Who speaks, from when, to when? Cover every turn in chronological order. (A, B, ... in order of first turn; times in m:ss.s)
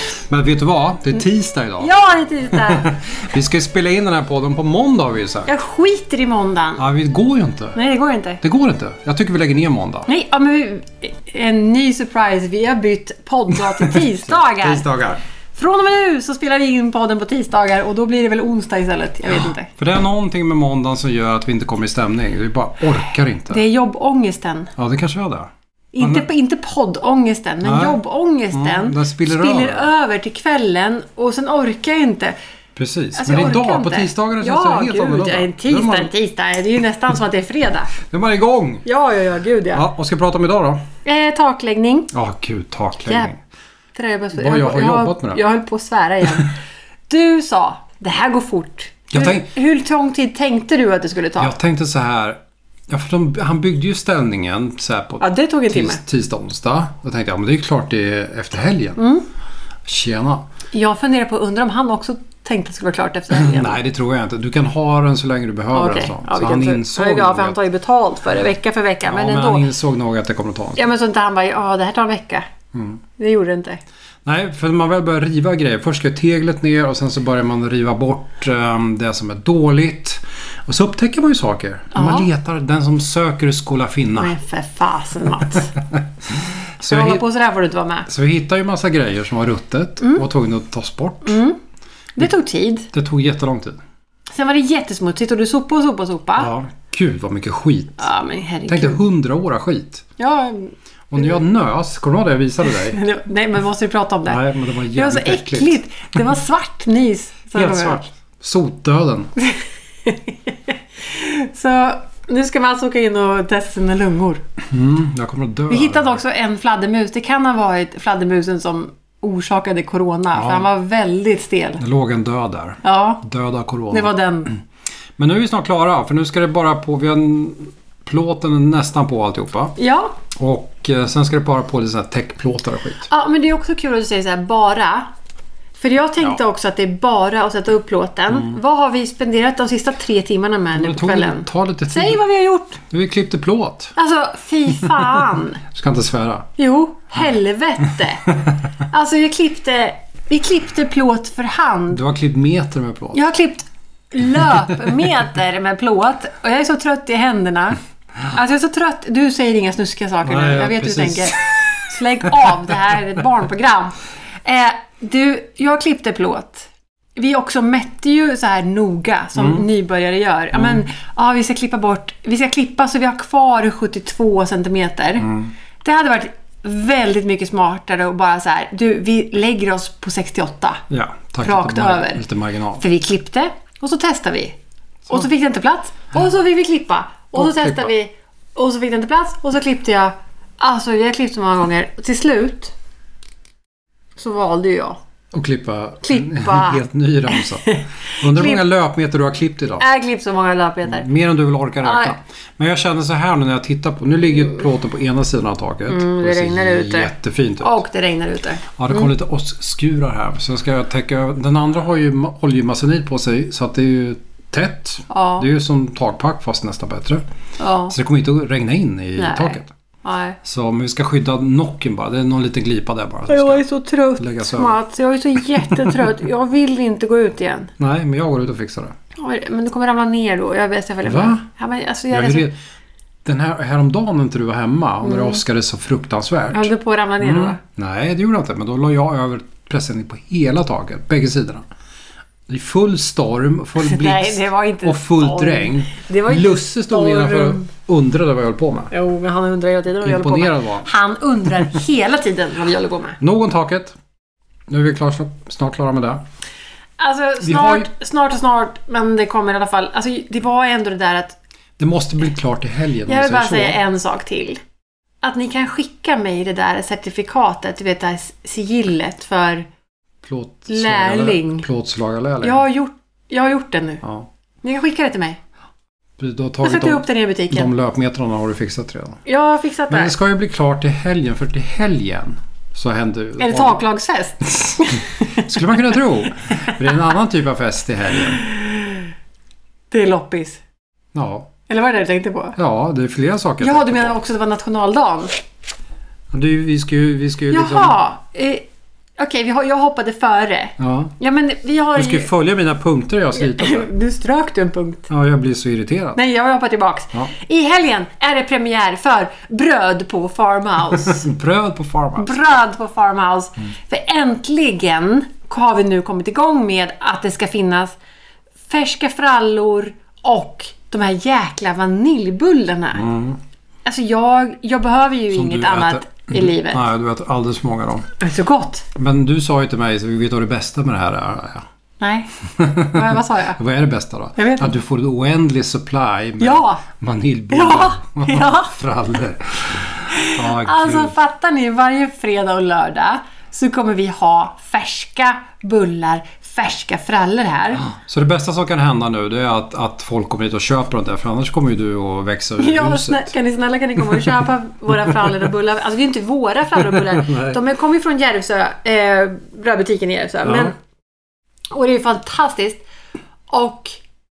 0:00.3-0:01.9 A
0:01.8-0:03.0 B
0:02.5-0:05.5 A
0:05.4-0:06.8 B
0:06.8-0:07.8 A
0:07.7-0:08.4 B
0:08.4-0:10.1 A
0:10.1-0:14.9 B
0:13.8-0:15.2 A
0:15.5-0:19.7 B
0:19.8-0:23.6 A
0:23.5-0:24.7 B
0:24.8-0:26.2 A
0:25.9-0:32.4 B
0:27.6-0:28.0 A
0:28.5-0:29.9 A
0:32.8-0:36.1 A
0:33.1-0:37.9 B
0:38.0-0:38.8 A
0:38.8-0:39.8 B
0:39.7-0:40.8 A
0:41.0-0:42.1 B
0:42.1-0:43.4 A
0:43.0-0:43.3 B
0:43.9-0:46.6 B
0:44.3-0:45.4 A
0:47.1-0:51.6 B
0:49.1-0:49.5 A
0:51.4-0:59.0 A
0:55.2-0:56.0 B
0:59.0-0:59.2 B
0:59.8-1:00.5 A
1:00.7-1:03.8 B
1:03.3-1:07.6 A
1:05.7-1:09.6 B
1:09.0-1:10.8 A
1:10.8-1:12.4 B
1:12.7-1:13.0 A
1:13.2-1:13.8 B
1:14.2-1:24.3 A
1:21.9-1:22.3 B
1:24.2-1:25.7 B
1:25.8-1:27.2 A
1:26.8-1:28.1 B
1:28.1-1:31.4 A
1:31.2-1:31.6 B
1:32.2-1:32.9 B
1:32.9-1:33.8 A
1:34.3-1:36.5 B
1:36.4-1:38.1 A
1:38.0-1:39.0 B
1:38.7-1:40.0 A
1:40.2-1:41.4 B
1:41.1-1:43.0 A
1:42.6-1:48.0 B
1:44.3-1:45.8 A
1:47.5-1:49.3 A
1:49.4-1:54.4 B
1:54.7-1:56.2 A
1:55.7-2:01.8 B
2:00.3-2:00.7 A
2:01.8-2:04.6 A
2:02.8-2:03.2 B
2:03.9-2:04.5 B
2:05.2-2:09.7 A
2:09.8-2:10.2 B
2:10.3-2:13.1 A
2:13.1-2:15.1 B
2:15.8-2:22.8 B
2:18.3-2:18.6 A
2:20.7-2:22.2 A
2:22.8-2:23.9 A
2:24.0-2:25.6 B
2:25.6-2:26.5 A
2:26.6-2:32.0 B
2:31.9-2:33.2 A
2:33.1-3:00.8 B
2:40.2-2:41.6 A
2:49.4-2:49.6 A
2:50.5-2:50.8 A
2:55.2-2:55.5 A
3:00.9-3:02.8 A
3:01.4-3:02.2 B
3:02.8-3:04.6 B
3:05.1-3:12.7 B
3:07.3-3:07.9 A
3:14.2-3:15.0 B
3:15.3-3:19.8 A
3:16.0-3:18.6 B
3:19.8-3:21.1 B
3:20.8-3:27.8 A
3:21.8-3:22.1 B
3:25.9-3:29.1 B
3:28.8-3:37.2 A
3:35.1-3:35.5 B
3:37.6-3:37.9 B
3:37.9-3:39.7 A
3:39.2-3:40.4 B
3:40.4-3:43.6 A
3:43.3-3:47.7 B
3:44.2-3:44.8 A
3:45.7-3:46.0 A
3:47.8-3:48.9 A
3:49.2-3:52.5 B
3:51.0-3:51.4 A
3:52.1-3:52.5 A
3:53.2-4:01.6 A
3:55.0-3:55.4 B
3:56.5-3:57.6 B
4:02.5-4:08.9 A
4:03.8-4:07.7 B
4:08.9-4:13.2 B
4:10.0-4:10.9 A
4:13.2-4:13.9 A
4:14.7-4:16.2 A
4:17.0-4:21.4 B
4:17.4-4:17.9 A
4:21.8-4:23.8 A
4:23.0-4:24.6 B
4:25.2-4:29.7 B
4:30.2-4:32.6 A
4:30.7-4:31.7 B
4:32.4-4:34.0 B
4:34.0-4:34.3 A
4:34.6-4:35.4 B
4:36.2-4:39.2 A
4:36.6-4:37.7 B
4:39.2-4:40.1 B
4:39.9-4:43.8 A
4:43.4-4:45.6 B
4:45.3-4:48.4 A
4:48.3-4:49.1 B
4:49.9-4:50.6 B
4:51.1-4:51.5 A
4:51.7-4:52.6 B
4:52.6-4:54.2 A
4:53.6-4:55.3 B
4:56.3-4:58.0 A
4:57.5-4:58.6 B
4:59.2-5:02.3 B
5:00.8-5:01.1 A
5:02.0-5:03.9 A
5:03.4-5:05.1 B
5:05.1-5:06.2 A
5:06.1-5:11.3 B
5:10.9-5:12.4 A
5:12.2-5:18.0 B
5:18.7-5:23.1 B
5:22.9-5:23.4 A
5:23.8-5:26.8 B
5:25.3-5:28.1 A
5:28.2-5:28.9 B
5:28.9-5:31.6 A
5:32.0-5:33.6 B
5:32.5-5:41.1 A
5:34.4-5:34.8 B
5:36.4-5:36.8 B
5:37.5-5:38.7 B
5:40.1-5:47.8 B
5:47.9-5:53.3 A
5:52.6-6:00.8 B
5:56.8-5:57.6 A
6:00.4-6:00.7 A
6:01.7-6:02.8 B
6:03.5-6:04.0 B